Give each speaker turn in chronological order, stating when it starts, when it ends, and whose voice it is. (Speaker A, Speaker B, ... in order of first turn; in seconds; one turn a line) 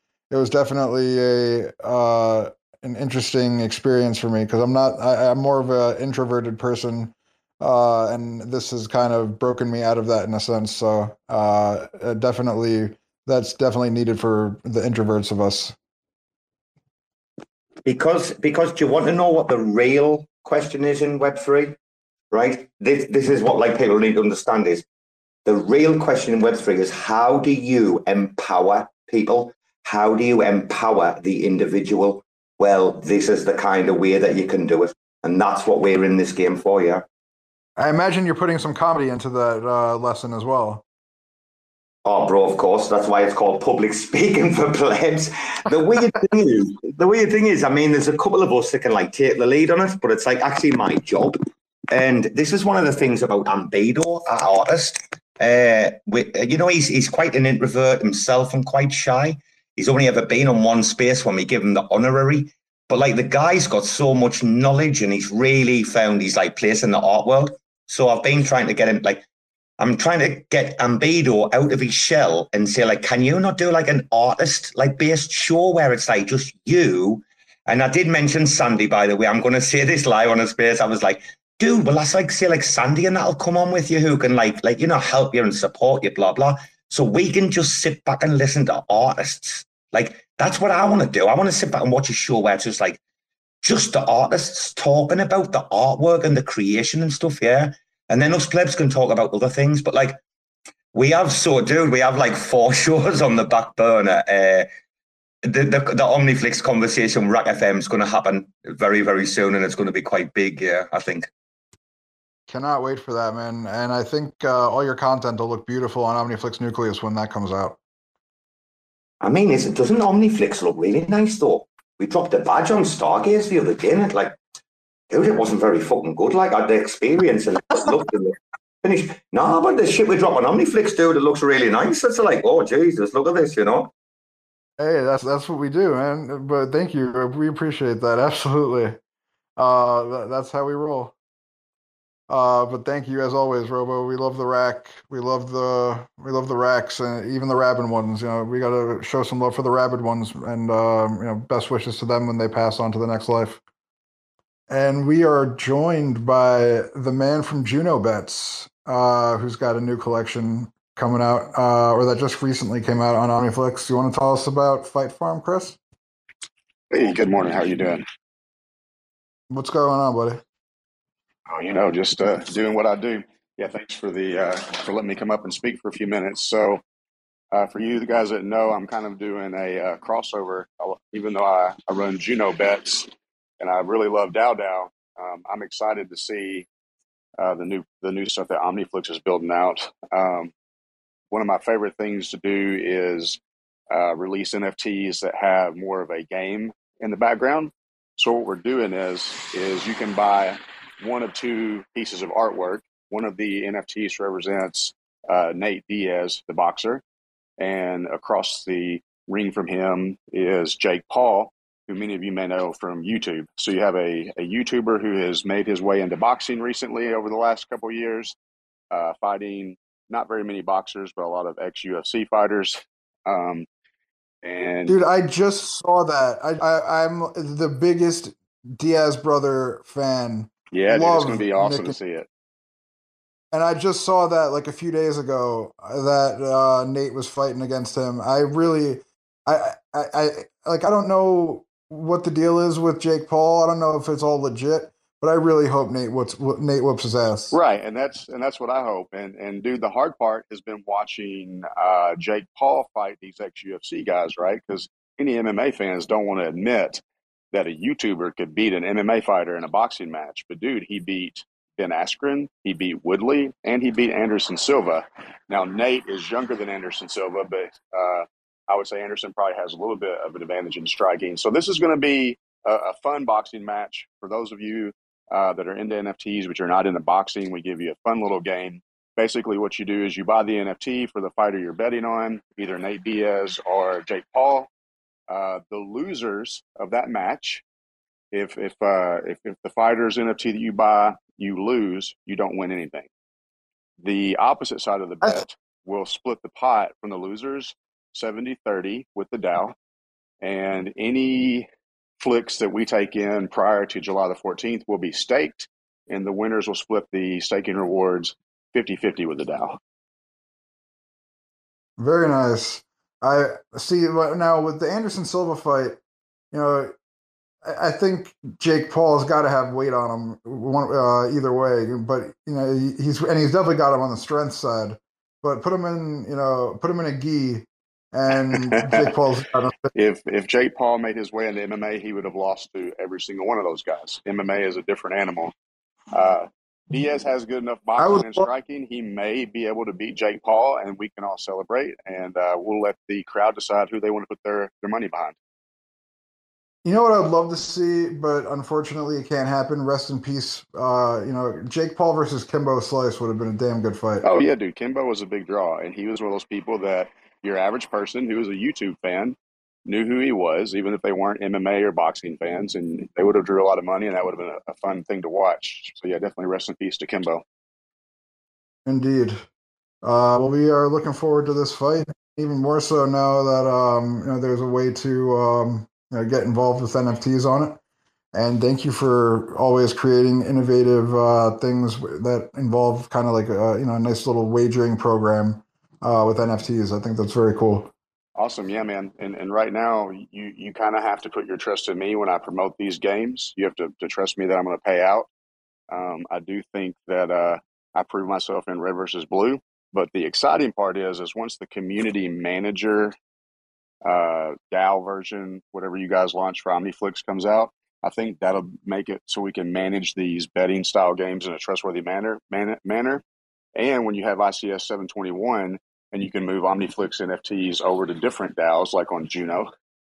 Speaker A: 0.3-15.8
Speaker B: 17.9-21.8
Speaker B: 22.3-24.8
Speaker B: 25.5-37.0
Speaker A: 37.8-40.8
Speaker B: 42.0-51.4
Speaker B: 51.9-69.2
Speaker B: 69.8-93.0
Speaker B: 93.6-100.2
Speaker B: 100.9-104.7
Speaker B: 105.4-111.3
Speaker A: 112.5-117.8
Speaker B: 119.2-124.4
Speaker B: 125.1-133.9
Speaker A: 134.8-139.0
Speaker A: 139.6-141.1
Speaker A: 142.3-153.6
Speaker A: 154.7-165.8
Speaker C: 166.9-168.0
Speaker A: 169.5-170.4
Speaker C: 171.5-176.8
Speaker C: 177.5-186.7
Speaker C: 187.4-190.5
Speaker C: 191.3-193.4
Speaker C: 193.9-207.0
Speaker C: 207.6-218.4
Speaker C: 218.9-223.7
Speaker C: 224.4-225.0
Speaker A: 224.9-231.9
Speaker C: 230.7-232.3
Speaker A: 233.5-247.6
Speaker C: 247.5-257.0
Speaker C: 257.5-284.7
Speaker C: 285.3-287.6
Speaker C: 288.3-293.1
Speaker C: 294.0-299.8
Speaker C: 300.4-301.7
Speaker C: 302.2-309.8
Speaker A: 312.0-316.0
Speaker A: 316.5-316.9
Speaker A: 317.6-329.9
Speaker C: 328.6-329.1
Speaker C: 329.9-335.5
Speaker C: 336.1-345.4
Speaker A: 338.0-338.5
Speaker A: 346.8-354.3
Speaker C: 354.2-367.4
Speaker A: 368.9-369.5
Speaker A: 370.0-377.8
Speaker A: 378.3-387.9
Speaker C: 388.4-395.3
Speaker C: 395.9-403.1
Speaker C: 404.1-413.2
Speaker C: 413.8-419.7